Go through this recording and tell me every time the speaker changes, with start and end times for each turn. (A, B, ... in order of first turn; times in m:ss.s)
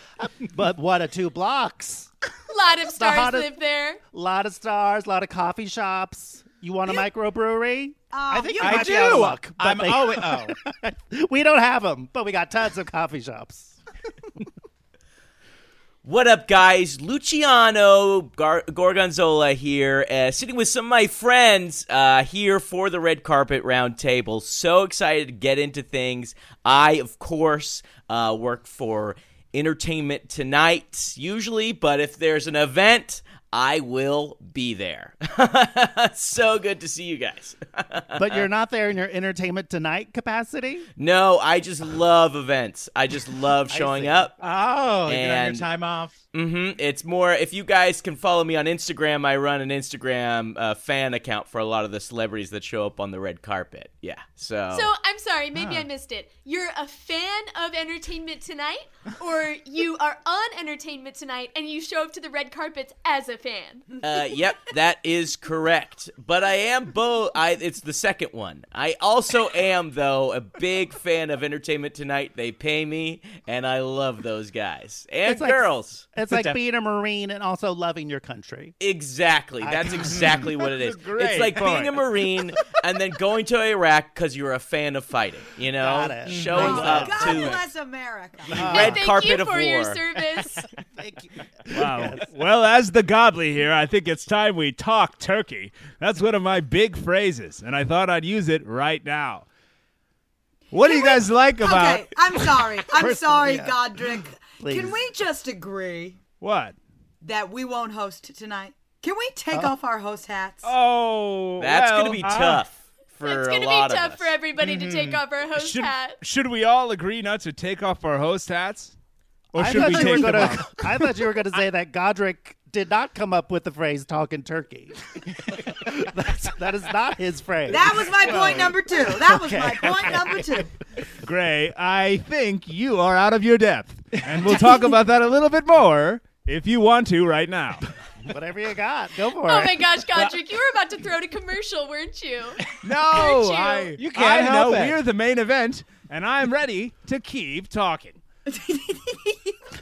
0:00.2-0:02.1 A
0:02.5-0:04.0 B
0:02.9-0:03.5 A
0:04.1-0:13.8 A
0:08.1-0:09.4 C
0:08.6-0:10.6 D
0:16.0-0:38.4 E
0:38.1-0:40.9 A
0:41.0-0:44.4 E
0:43.7-0:44.3 A
0:44.4-0:46.1 D
0:45.1-0:45.6 E
0:46.3-0:54.9 E
0:54.7-1:03.8 B
0:55.5-0:55.9 D
1:04.0-1:16.0 E
1:15.2-1:18.7 A
1:16.3-1:16.6 D
1:18.8-1:27.6 E
1:19.6-1:20.4 A
1:20.6-1:22.0 F
1:25.8-1:27.5 A
1:26.4-1:27.6 F
1:26.5-1:28.9 C
1:28.5-1:29.0 A
1:28.5-1:30.0 E
1:28.7-1:30.6 B
1:31.0-1:32.3 A
1:31.7-1:39.4 F
1:40.7-1:42.4 F
1:40.8-1:46.2 C
1:42.9-1:45.0 A
1:46.4-1:46.8 F
1:47.2-1:50.7 C
1:50.6-1:52.4 F
1:51.6-1:54.3 E
1:52.2-1:52.6 D
1:53.2-1:56.2 B
1:54.6-1:55.2 D
1:55.6-1:58.9 F
1:59.5-2:01.0 F
1:59.6-2:10.7 A
1:59.7-2:00.5 D
2:07.7-2:10.7 C
2:08.2-2:08.7 F
2:11.2-2:17.8 F
2:14.3-2:14.7 D
2:18.2-2:19.9 A
2:19.4-2:23.9 B
2:22.8-2:28.2 F
2:24.0-2:25.0 D
2:28.5-2:29.5 C